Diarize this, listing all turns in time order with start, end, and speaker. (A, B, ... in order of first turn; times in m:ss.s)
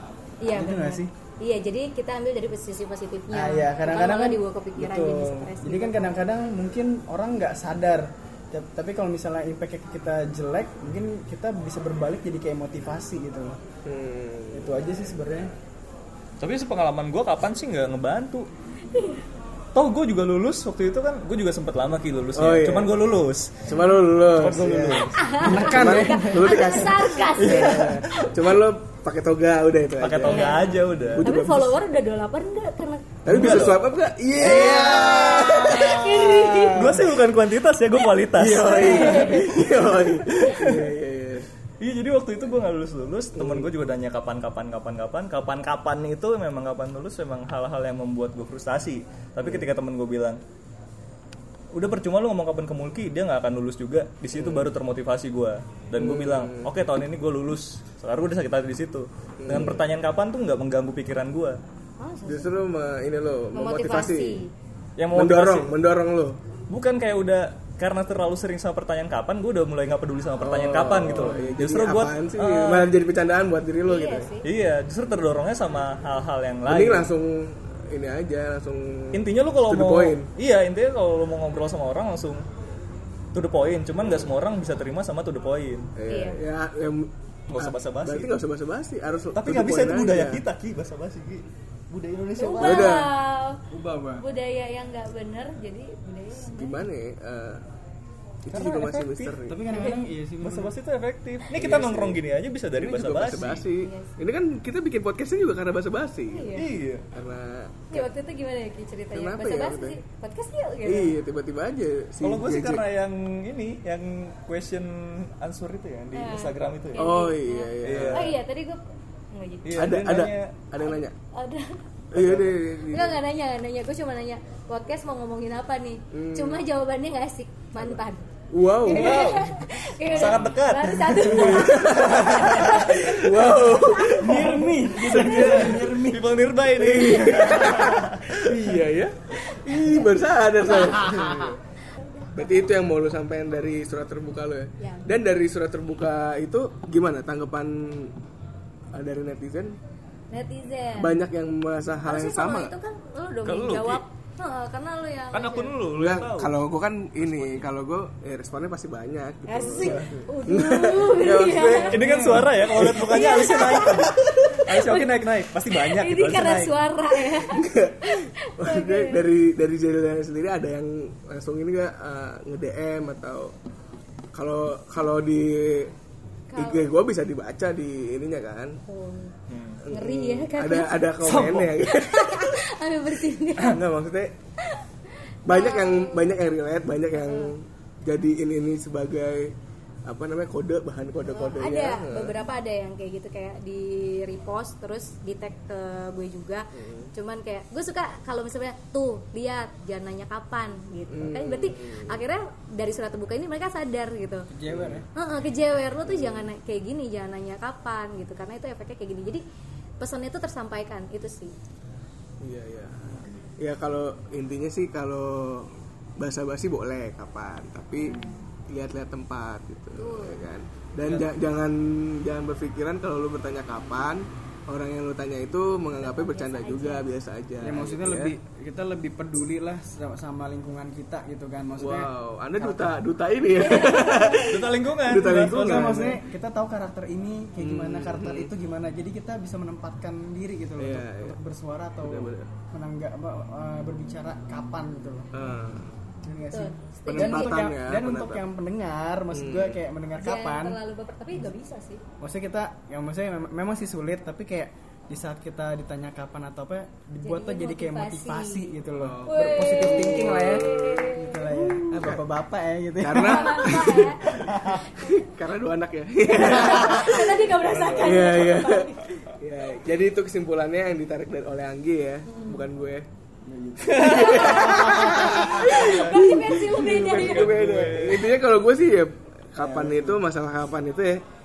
0:00.4-0:06.2 A
0:00.5-0:01.1 B
0:03.3-0:13.6 B
0:13.8-0:14.7 C
0:14.5-0:15.5 B
0:16.4-0:18.5 D
0:18.9-0:19.2 A
0:19.7-0:23.7 D
0:22.4-0:23.0 C
0:23.6-0:31.7 C
0:24.3-0:25.7 D
0:25.1-0:27.8 A
0:25.4-0:27.0 B
0:27.4-0:28.5 D
0:30.0-0:31.2 D
0:30.3-0:33.2 A
0:33.2-0:36.4 C
0:33.2-0:33.8 D
0:34.4-0:35.9 D
0:34.4-0:36.9 A
0:34.6-0:37.0 B
0:36.7-0:40.9 D
0:38.4-0:41.5 C
0:38.5-0:39.5 A
0:41.8-0:50.4 D
0:43.4-0:43.7 C
0:51.7-1:01.6 D
0:54.4-0:54.7 C
0:56.0-0:56.7 C
0:59.4-0:59.8 C
1:02.0-1:02.6 A
1:02.3-1:04.4 C
1:03.5-1:04.5 A
1:05.0-1:05.8 D
1:05.1-1:06.4 C
1:06.7-1:13.0 D
1:10.4-1:14.3 C
1:13.8-1:14.5 A
1:14.4-1:17.1 D
1:16.7-1:20.3 C
1:19.1-1:22.4 D
1:23.3-1:25.9 D
1:24.0-1:24.3 C
1:26.0-1:30.4 C
1:26.1-1:26.4 A
1:27.5-1:28.3 D
1:29.3-1:33.0 D
1:32.4-1:33.6 A
1:32.6-1:33.1 C
1:33.7-1:34.2 B
1:34.2-1:36.8 A
1:36.4-1:37.6 C
1:38.4-1:39.6 C
1:38.5-1:39.4 D
1:39.4-1:40.7 B
1:39.7-1:40.0 A
1:40.4-1:43.6 D
1:41.5-1:42.2 C
1:42.8-1:46.5 C
1:43.8-1:44.1 A
1:46.3-1:46.7 A
1:46.5-1:47.0 D
1:47.1-1:48.1 C
1:47.9-1:51.1 A
1:49.1-1:50.0 C
1:50.8-1:52.8 C
1:52.2-1:57.2 D
1:56.1-1:58.8 A
1:57.0-1:58.3 C
1:57.8-1:58.3 D
1:59.3-1:59.9 A
1:59.6-2:00.5 D
1:59.8-2:01.1 C
2:00.8-2:01.8 A
2:02.1-2:02.6 D
2:02.1-2:03.2 C
2:02.9-2:08.3 A
2:06.1-2:06.6 C
2:08.5-2:09.3 C
2:08.8-2:13.2 A
2:08.8-2:13.6 D
2:10.1-2:10.5 C
2:11.2-2:15.8 C
2:14.2-2:16.3 B
2:15.0-2:18.8 D
2:16.7-2:21.6 C
2:19.6-2:20.1 A
2:20.7-2:21.0 A
2:21.1-2:21.5 B
2:21.9-2:22.3 A
2:22.3-2:28.1 C
2:24.8-2:25.2 A
2:28.9-2:29.8 C
2:30.3-2:31.2 A
2:31.0-2:32.7 C
2:32.0-2:35.8 A
2:33.4-2:34.0 D
2:35.3-2:36.5 D
2:35.9-2:43.2 C
2:37.2-2:37.7 D
2:39.5-2:42.1 A
2:39.8-2:40.1 D
2:41.9-2:46.7 D
2:42.1-2:42.5 B
2:42.8-2:49.2 A
2:44.0-2:44.6 C
2:47.3-2:53.5 C
2:54.3-2:55.9 C
2:56.5-2:56.9 A
2:56.6-2:58.8 C
2:58.8-2:59.3 A
2:59.5-2:59.8 D
2:59.8-3:02.6 C
2:59.9-3:01.2 A
3:01.2-3:01.8 D
3:01.8-3:03.8 A
3:03.6-3:04.3 C
3:05.4-3:09.5 C
3:05.5-3:06.4 A
3:07.2-3:07.5 A
3:10.0-3:12.3 C
3:11.3-3:24.5 A
3:16.7-3:17.1 C
3:21.1-3:22.2 C
3:24.5-3:25.1 B
3:24.7-3:25.0 C
3:25.1-3:29.4 A
3:26.0-3:26.5 C
3:30.0-3:31.5 A
3:32.4-3:48.3 C
3:38.0-3:38.4 A
3:39.9-3:40.4 A
3:46.0-3:47.1 A
3:47.6-3:53.0 B
3:51.8-3:56.2 C
3:53.6-3:54.5 A
3:54.5-3:56.0 D
3:55.3-4:05.3 B
3:57.6-3:58.5 C
4:00.8-4:01.4 C
4:02.0-4:02.5 C
4:05.3-4:05.9 C
4:06.2-4:10.8 B
4:06.5-4:07.7 A
4:07.1-4:08.4 C
4:09.3-4:09.8 C
4:10.2-4:12.0 A
4:12.2-4:24.8 B
4:17.2-4:21.9 A
4:18.9-4:21.2 C
4:21.9-4:22.2 C
4:23.0-4:24.4 C
4:23.1-4:25.2 A
4:24.9-4:27.4 C
4:26.3-4:29.1 A
4:27.6-4:28.5 D
4:28.0-4:33.1 C
4:32.2-4:32.6 A
4:33.4-4:35.6 B
4:33.8-4:41.2 C
4:34.0-4:37.6 A
4:34.1-4:35.0 D
4:35.5-4:38.4 D
4:39.6-4:40.2 B